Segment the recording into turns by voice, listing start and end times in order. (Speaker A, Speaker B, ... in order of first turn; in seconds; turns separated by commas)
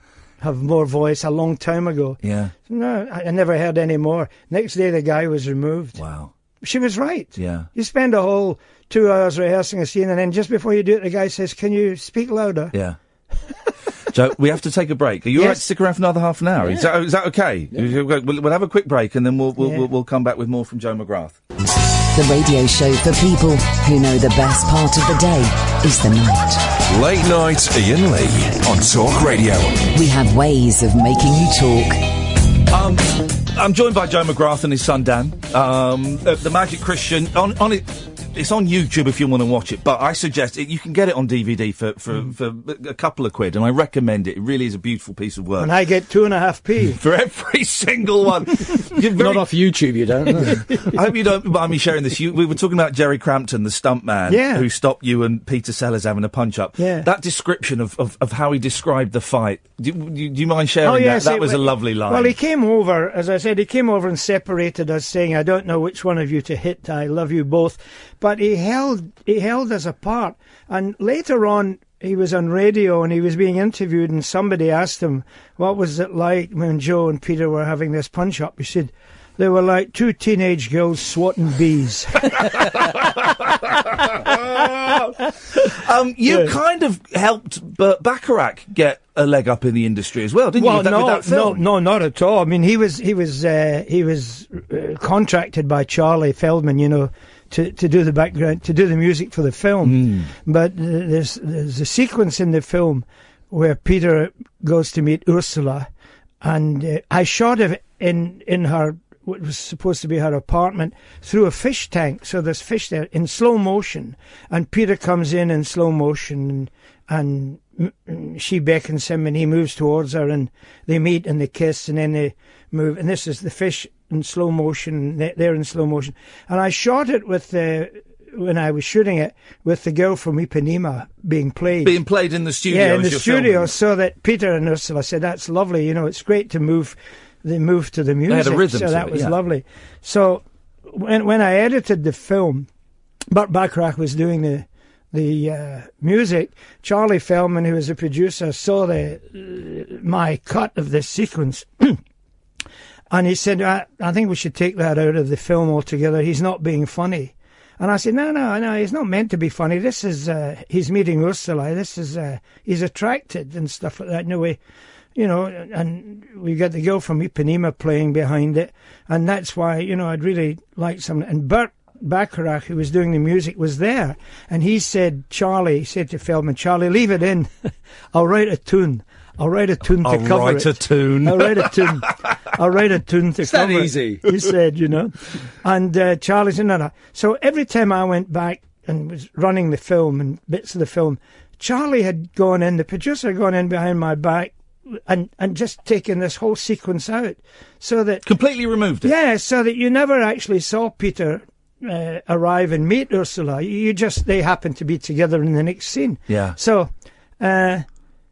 Speaker A: 0.4-6.0, Speaker B: 2.2-2.5, Speaker B: 6.0-6.3, Speaker A: 6.6-12.7, Speaker B: 7.4-7.7, Speaker B: 14.1-21.4, Speaker A: 15.3-15.6, Speaker A: 19.6-19.9, Speaker C: 22.1-26.6, Speaker D: 26.9-29.9, Speaker C: 29.9-32.0, Speaker B: 32.7-45.7, Speaker A: 45.6-47.0, Speaker B: 47.0-49.5, Speaker E: 49.2-50.9, Speaker B: 50.4-62.4, Speaker A: 54.3-54.7, Speaker A: 56.8-57.1, Speaker A: 60.8-82.7, Speaker B: 82.5-91.6, Speaker A: 90.6-105.9, Speaker B: 99.8-100.3, Speaker A: 106.4-132.0, Speaker B: 131.8-133.7, Speaker A: 132.7-142.7, Speaker B: 138.3-139.4, Speaker A: 143.3-152.0, Speaker A: 153.1-164.6, Speaker A: 165.2-177.5, Speaker A: 178.1-198.2, Speaker B: 179.9-182.1, Speaker E: 183.5-184.2, Speaker B: 198.2-199.1, Speaker A: 199.0-207.8, Speaker B: 206.3-206.6